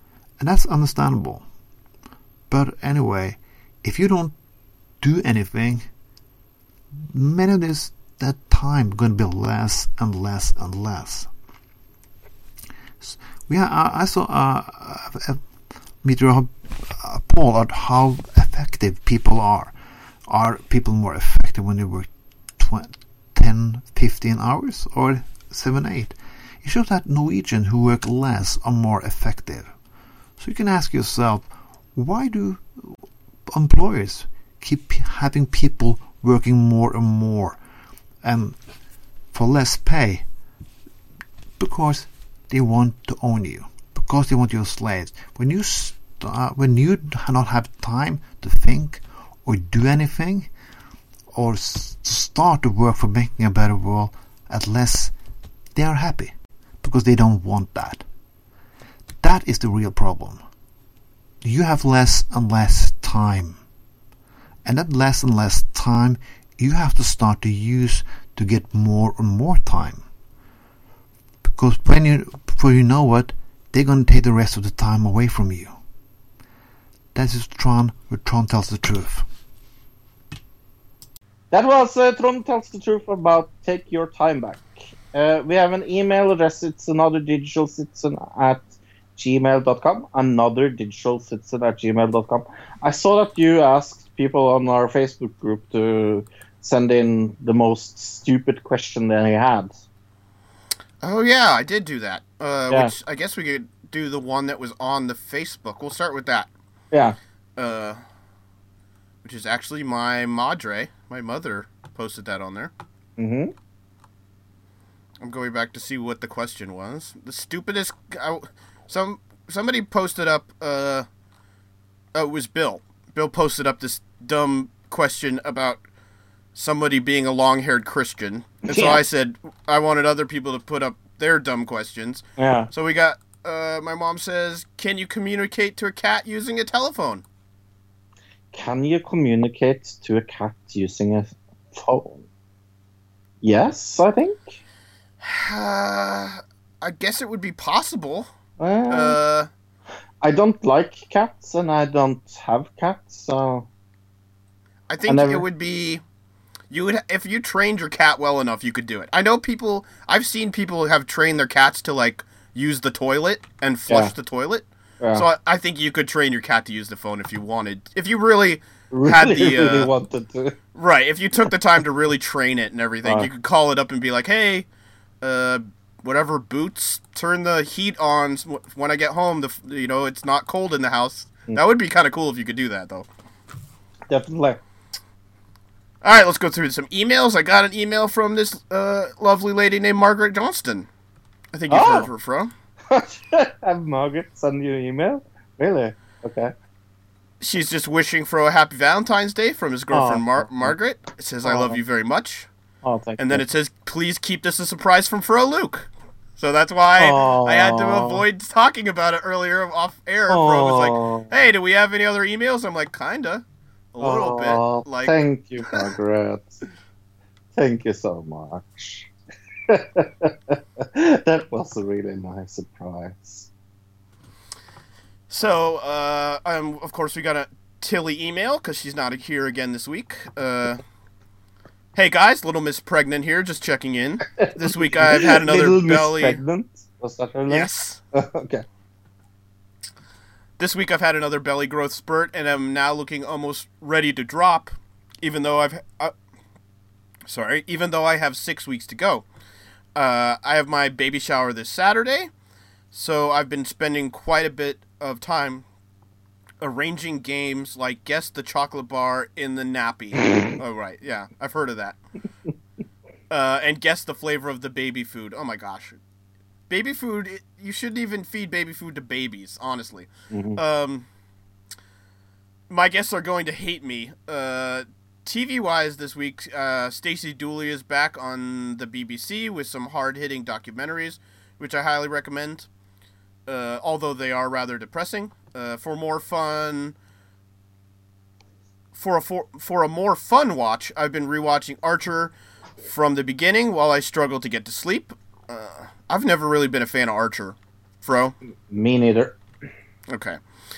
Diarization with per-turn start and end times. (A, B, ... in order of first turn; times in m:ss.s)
0:00.4-0:01.4 A
0:02.5-0:04.4 A
0:05.0-0:05.9 A
0:07.1-0:11.3 A
0:13.0-0:29.8 A
0:30.4-0:37.6 A
0:38.2-0:38.7 A
0:39.3-0:40.3 A
0:41.6-0:50.5 A
0:51.3-0:55.2 A
0:55.7-0:58.0 A
0:59.2-1:00.4 A
1:01.4-1:03.6 A
1:04.6-1:10.1 A
1:11.4-1:15.8 A
1:17.1-1:19.2 A
1:21.5-1:39.7 B
1:41.0-1:46.5 C
1:46.9-1:47.2 B
1:47.6-1:48.0 C
1:49.2-1:52.7 C
1:53.2-1:53.5 B
1:55.2-2:01.0 C
2:02.1-2:05.8 C
2:06.5-2:17.2 C
2:08.6-2:09.0 B
2:12.4-2:12.7 B
2:18.5-2:22.2 B
2:23.4-2:24.6 B
2:25.2-2:28.3 C
2:28.6-2:29.2 B
2:28.9-2:29.5 C
2:30.2-2:33.7 B
2:34.9-2:36.0 C
2:35.1-2:35.4 B
2:36.7-2:49.9 C
2:45.0-2:45.2 B
2:48.9-2:50.6 B
2:50.7-2:54.6 C
2:53.0-2:53.3 B
2:55.2-3:03.1 C
3:04.1-3:04.6 B
3:06.0-3:10.9 C
3:11.5-3:12.5 C
3:11.7-3:12.1 B
3:12.9-3:16.5 B
3:17.4-3:22.5 C
3:19.9-3:20.7 B
3:21.4-3:21.8 B
3:22.8-3:23.4 B
3:23.2-3:35.1 C
3:27.0-3:28.2 B
3:30.3-3:31.3 B
3:34.0-3:36.6 B
3:37.5-3:39.1 B
3:39.7-3:43.5 B
3:45.3-3:50.8 C
3:51.9-3:56.4 C
3:54.4-3:58.6 B
3:57.5-3:58.0 C
4:00.6-4:06.1 C
4:07.2-4:09.2 C
4:09.9-4:12.3 C
4:12.9-4:15.6 C
4:16.6-4:22.0 C
4:20.3-4:20.5 B
4:23.3-4:26.0 C
4:26.7-4:31.1 C
4:30.3-4:30.6 B
4:32.7-4:42.7 C
4:43.5-4:46.9 C
4:48.9-4:58.3 C
4:58.7-4:59.4 B
5:00.1-5:00.4 C